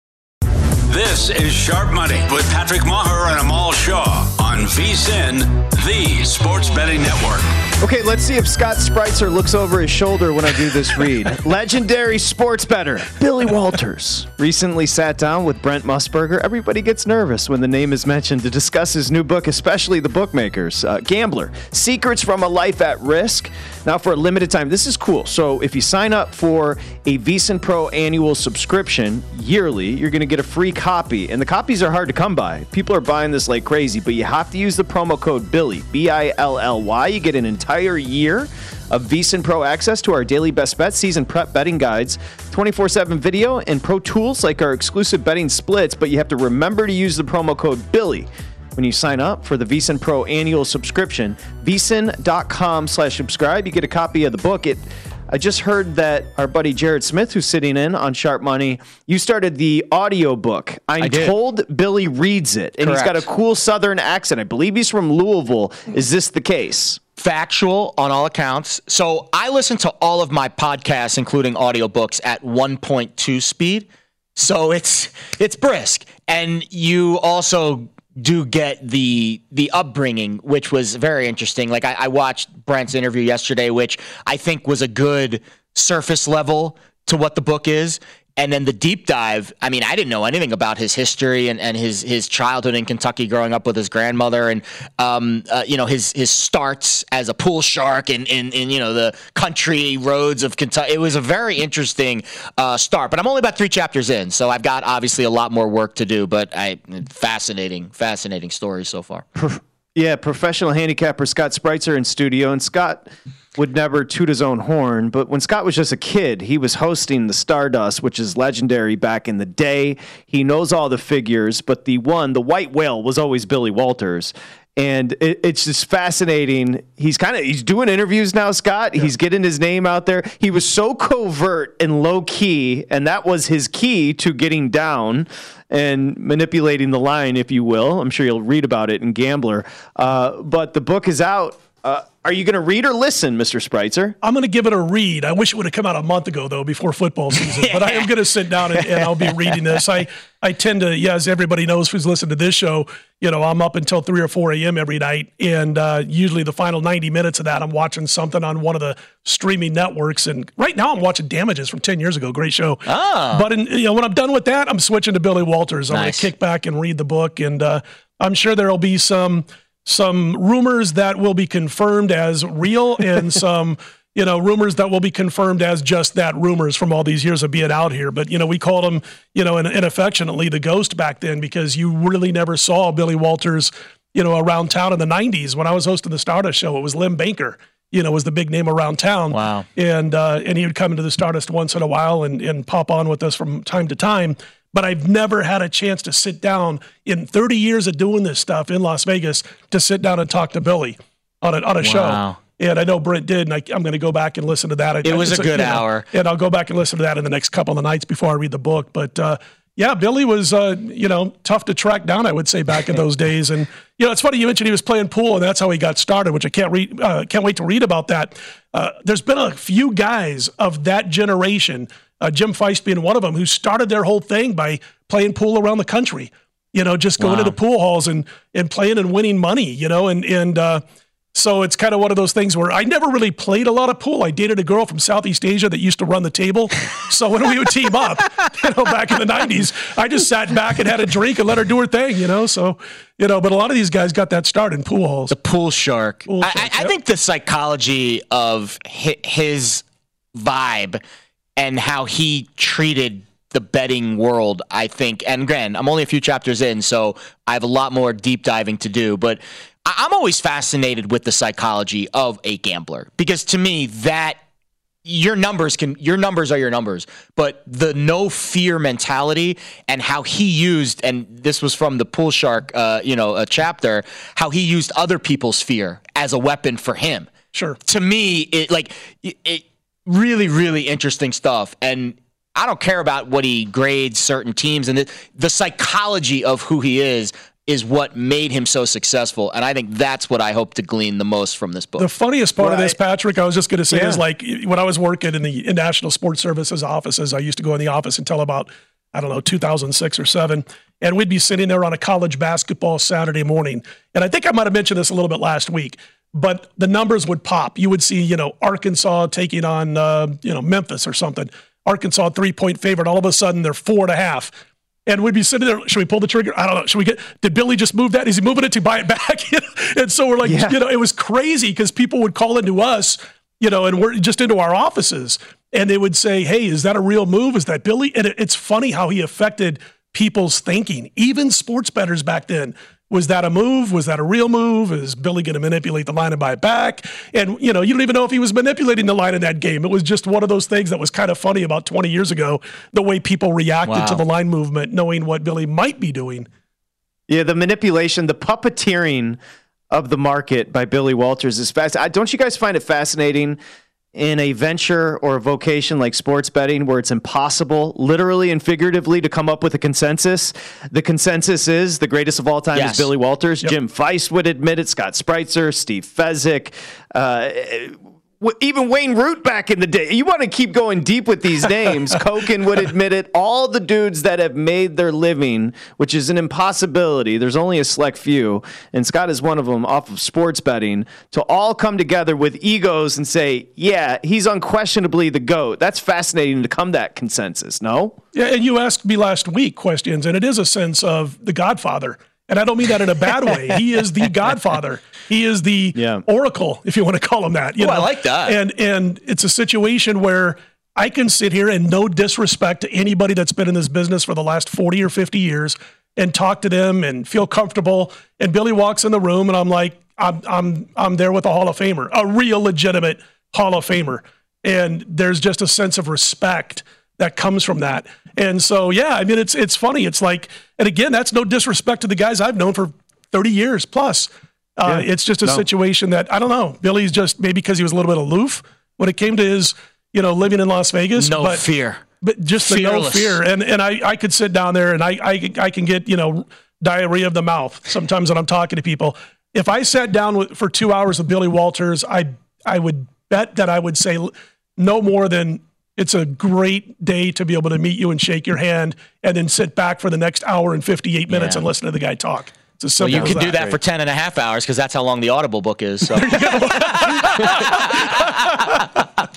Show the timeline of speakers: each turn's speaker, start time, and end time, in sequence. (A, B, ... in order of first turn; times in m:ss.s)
0:00.9-0:07.5 A
0:07.8-1:07.0 B
1:01.0-1:01.4 C
1:02.8-1:03.2 C
1:07.2-1:49.2 C
1:49.4-2:24.2 B
2:24.2-3:50.8 D
2:27.5-2:28.1 C
2:42.8-2:43.5 C
2:45.9-2:46.3 C
3:09.3-3:09.6 C
3:21.8-3:22.4 C
3:25.0-3:26.0 C
3:47.2-3:47.6 C
3:51.3-4:05.3 D
4:05.3-4:09.8 C
4:06.3-4:06.9 D
4:10.3-4:11.0 C
4:11.6-4:24.4 C
4:25.0-4:37.3 C
4:37.5-4:37.8 D
4:37.9-4:52.1 C
4:52.0-5:14.5 D
4:52.6-4:53.0 B
4:53.9-4:54.2 B
5:15.1-5:46.5 D
5:20.4-5:20.8 B
5:43.8-5:44.2 C
5:47.3-5:49.4 B
5:49.9-5:53.6 B
5:54.1-6:28.2 B
6:02.7-6:03.1 C
6:28.3-7:11.6 D
6:35.9-6:36.2 B
6:37.8-6:38.6 C
7:04.8-7:05.6 B
7:11.2-7:13.4 C
7:12.2-7:33.7 D
7:31.3-7:31.6 C
7:33.0-7:39.0 C
7:33.1-7:33.5 B
7:36.1-7:38.5 D